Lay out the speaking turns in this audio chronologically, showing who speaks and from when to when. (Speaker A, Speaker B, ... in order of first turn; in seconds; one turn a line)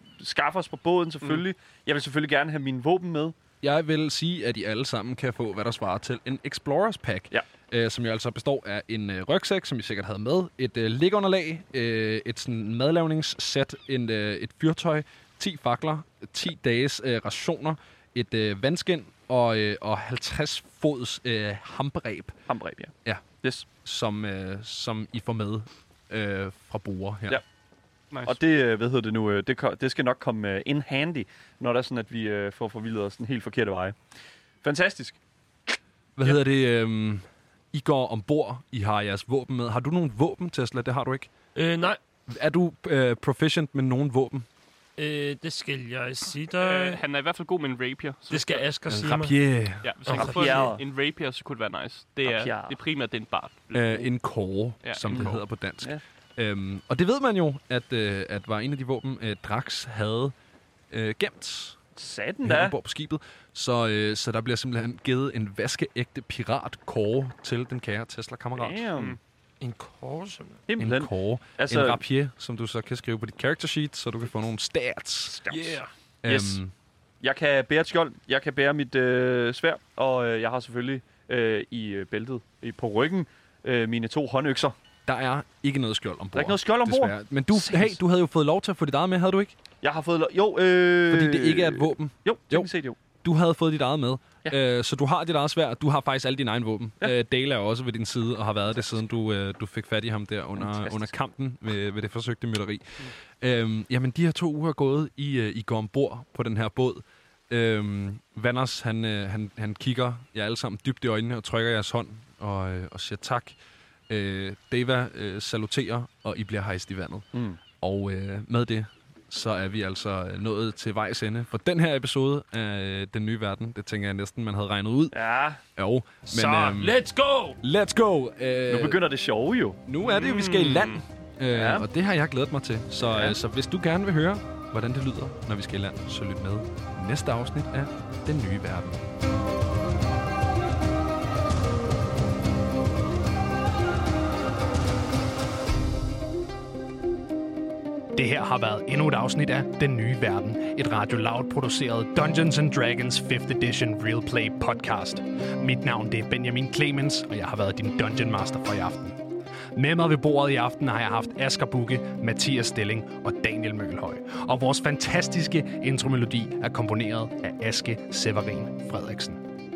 Speaker A: 0.2-3.4
Speaker B: 3.6-22.4
Speaker A: 22.5-23.7
Speaker B: 23.8-27.4
Speaker C: 28.1-28.4
Speaker A: 28.2-34.0
Speaker A: 34.6-35.2
Speaker B: 36.2-41.3
Speaker D: 41.5-42.0
Speaker B: 42.3-44.5
Speaker D: 45.0-47.0
Speaker C: 46.6-48.6
Speaker D: 48.3-49.4
Speaker B: 48.9-49.9
Speaker C: 49.8-54.1
Speaker D: 50.1-50.7
Speaker A: 50.1-50.8
Speaker A: 52.3-52.8
Speaker B: 53.7-60.3
Speaker C: 54.8-55.4
Speaker A: 55.1-56.0
Speaker B: 60.9-61.8
Speaker A: 62.0-62.8
Speaker B: 62.4-68.8
Speaker A: 68.6-69.2
Speaker D: 69.6-70.6
Speaker A: 70.7-72.0
Speaker B: 70.8-75.4
Speaker A: 75.3-76.6
Speaker D: 75.5-75.9
Speaker B: 76.2-76.7
Speaker A: 77.2-84.8
Speaker B: 85.1-89.5
Speaker A: 86.3-88.0
Speaker A: 89.8-93.0
Speaker B: 91.1-92.7
Speaker B: 93.2-113.6
Speaker A: 100.6-101.1
Speaker B: 114.1-117.3
Speaker A: 117.3-117.6
Speaker B: 117.8-125.2
Speaker A: 125.1-125.6
Speaker B: 125.8-127.0
Speaker D: 126.3-127.6
Speaker B: 127.6-129.0
Speaker A: 128.7-129.8
Speaker B: 129.9-139.0
Speaker C: 130.0-131.0
Speaker A: 131.5-131.9
Speaker A: 133.1-133.3
Speaker E: 148.2-159.2
Speaker E: 159.8-169.4